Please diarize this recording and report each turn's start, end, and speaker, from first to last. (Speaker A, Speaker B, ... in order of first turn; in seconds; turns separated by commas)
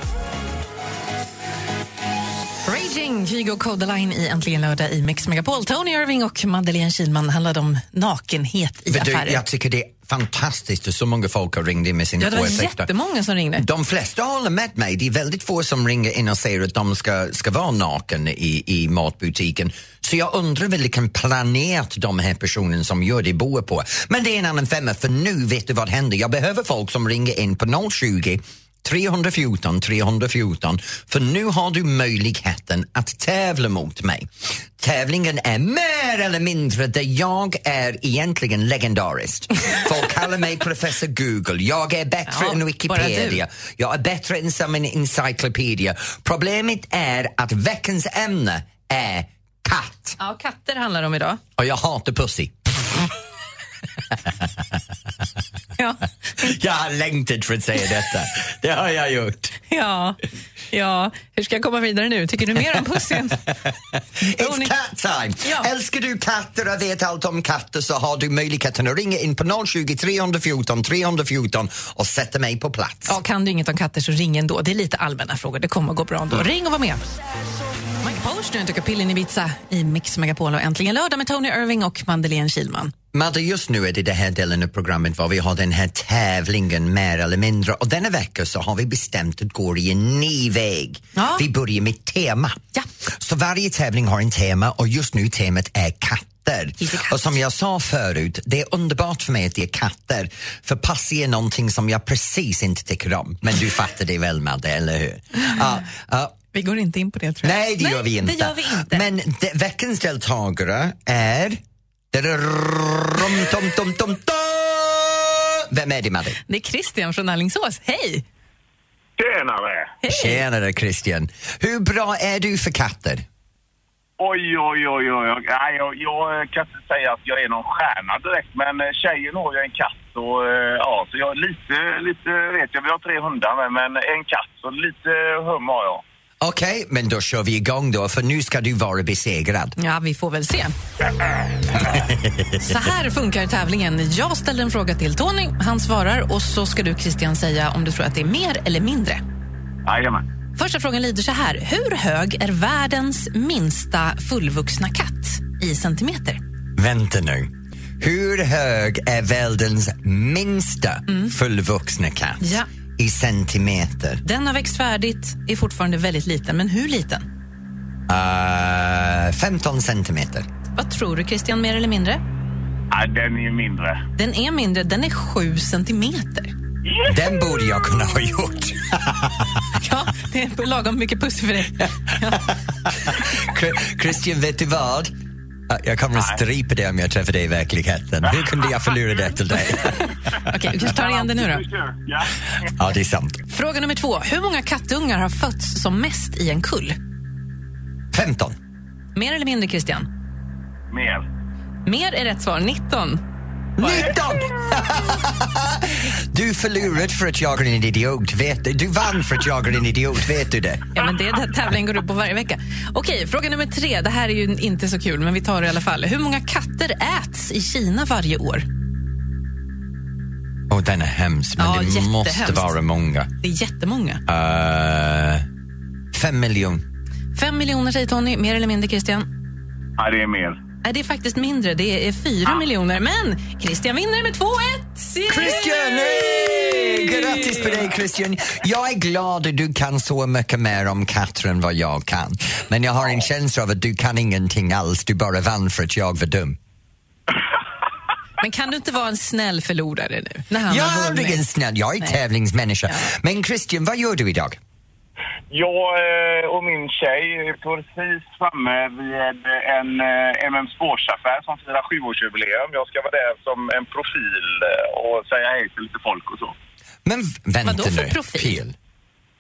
Speaker A: 2.6-9.4, Speaker B: 8.9-12.9, Speaker A: 12.2-13.6, Speaker B: 13.6-50.2, Speaker A: 42.3-43.4, Speaker A: 50.2-51.4, Speaker B: 51.6-52.5, Speaker B: 54.1-54.8, Speaker A: 55.8-56.5, Speaker B: 56.4-59.5, Speaker A: 59.7-60.2, Speaker A: 60.7-63.4, Speaker A: 64.2-64.7, Speaker B: 64.2-73.2, Speaker A: 65.4-65.7, Speaker A: 73.1-77.1, Speaker A: 78.0-82.9, Speaker B: 83.1-92.6, Speaker A: 91.1-91.5, Speaker B: 93.1-106.3, Speaker A: 96.8-97.3, Speaker A: 106.5-109.1, Speaker B: 107.4-111.6, Speaker B: 112.1-116.4, Speaker A: 116.5-118.2, Speaker C: 119.2-119.9, Speaker A: 120.0-120.4, Speaker B: 120.1-123.2, Speaker C: 124.2-136.0, Speaker B: 136.4-139.8, Speaker A: 139.8-140.7, Speaker B: 141.9-142.8, Speaker A: 142.6-149.2, Speaker C: 149.8-150.2, Speaker A: 150.6-156.4, Speaker B: 156.8-164.2, Speaker A: 162.4-162.7, Speaker A: 164.2-167.2, Speaker B: 168.1-170.5, Speaker A: 170.7-172.2, Speaker C: 172.9-174.0, Speaker A: 174.2-176.5, Speaker C: 176.8-177.3, Speaker B: 177.0-179.6, Speaker A: 179.8-182.5, Speaker B: 182.5-185.1, Speaker B: 185.7-190.1, Speaker A: 190.4-191.6, Speaker C: 190.8-192.3, Speaker B: 192.8-193.4, Speaker A: 193.5-197.0, Speaker B: 198.1-198.6, Speaker A: 199.1-200.1, Speaker C: 200.9-201.2, Speaker A: 201.8-203.2, Speaker B: 203.8-210.9, Speaker A: 203.8-204.1, Speaker A: 210.9-218.7, Speaker B: 220.7-223.3, Speaker A: 221.6-222.7, Speaker A: 223.4-224.2, Speaker B: 224.2-225.5, Speaker B: 226.1-226.8, Speaker A: 227.3-229.3, Speaker C: 230.0-230.6, Speaker A: 230.8-237.9, Speaker B: 235.3-246.6, Speaker A: 248.4-251.4, Speaker B: 250.6-254.6, Speaker C: 255.5-266.5, Speaker B: 267.0-268.8, Speaker A: 267.6-268.6